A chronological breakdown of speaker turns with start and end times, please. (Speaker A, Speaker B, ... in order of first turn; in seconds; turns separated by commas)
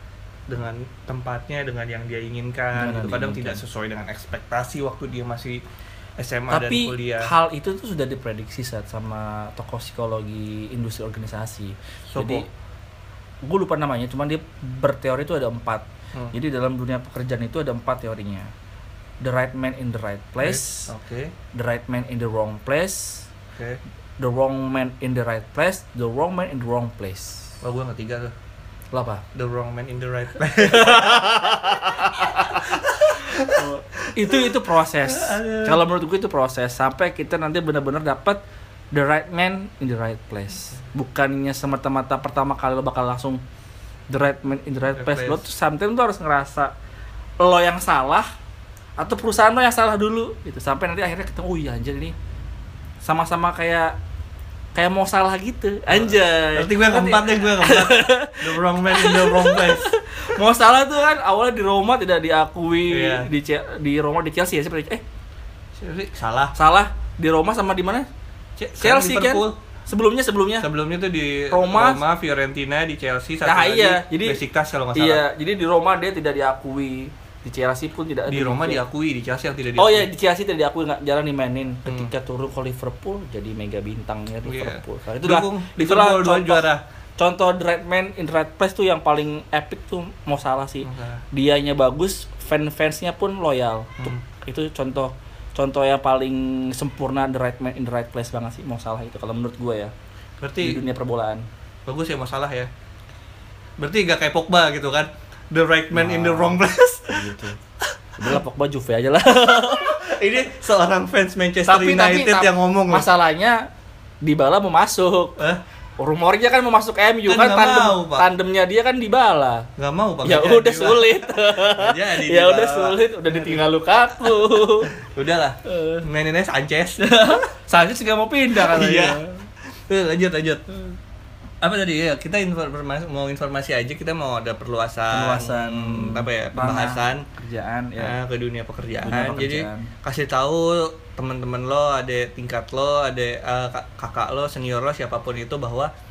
Speaker A: 0.5-5.6, Speaker B: 2.7-3.6, Speaker A: 6.2-7.3, Speaker B: 6.5-12.5, Speaker A: 12.1-12.4, Speaker B: 13.4-18.5, Speaker B: 19.2-20.9, Speaker A: 20.4-21.3, Speaker B: 21.5-23.3, Speaker A: 23.5-23.8, Speaker B: 24.2-27.5, Speaker A: 27.6-28.3, Speaker B: 28.9-29.2, Speaker A: 29.3-35.8, Speaker B: 30.6-32.8, Speaker B: 33.4-38.4, Speaker B: 38.9-43.4, Speaker B: 44.1-46.7, Speaker A: 44.9-45.4, Speaker B: 47.4-48.2, Speaker B: 49.0-52.1, Speaker B: 53.0-53.9, Speaker B: 54.7-65.0, Speaker A: 55.9-59.9, Speaker A: 62.9-63.3, Speaker A: 65.8-66.5, Speaker B: 66.5-68.1, Speaker A: 68.6-69.6, Speaker B: 68.8-70.7, Speaker A: 70.6-75.2, Speaker B: 71.5-72.0, Speaker B: 73.4-74.4, Speaker B: 74.9-78.8, Speaker A: 78.3-80.1, Speaker B: 79.8-86.7, Speaker A: 81.8-82.1, Speaker A: 84.4-86.8, Speaker B: 87.2-99.9, Speaker A: 90.8-91.2, Speaker A: 100.4-100.8, Speaker B: 100.6-101.4, Speaker A: 101.9-102.7, Speaker A: 103.8-107.3, Speaker B: 105.9-107.6, Speaker B: 108.2-110.1, Speaker A: 109.5-113.1, Speaker B: 111.7-113.7, Speaker B: 114.2-115.4, Speaker B: 116.0-119.7, Speaker A: 117.2-118.3, Speaker A: 119.8-123.7, Speaker B: 120.2-124.9, Speaker A: 124.9-127.3, Speaker B: 125.7-126.0, Speaker B: 127.0-129.4, Speaker A: 128.5-129.2, Speaker A: 129.9-130.7, Speaker A: 131.6-137.3, Speaker B: 135.1-138.2, Speaker A: 138.0-145.9, Speaker B: 139.0-139.9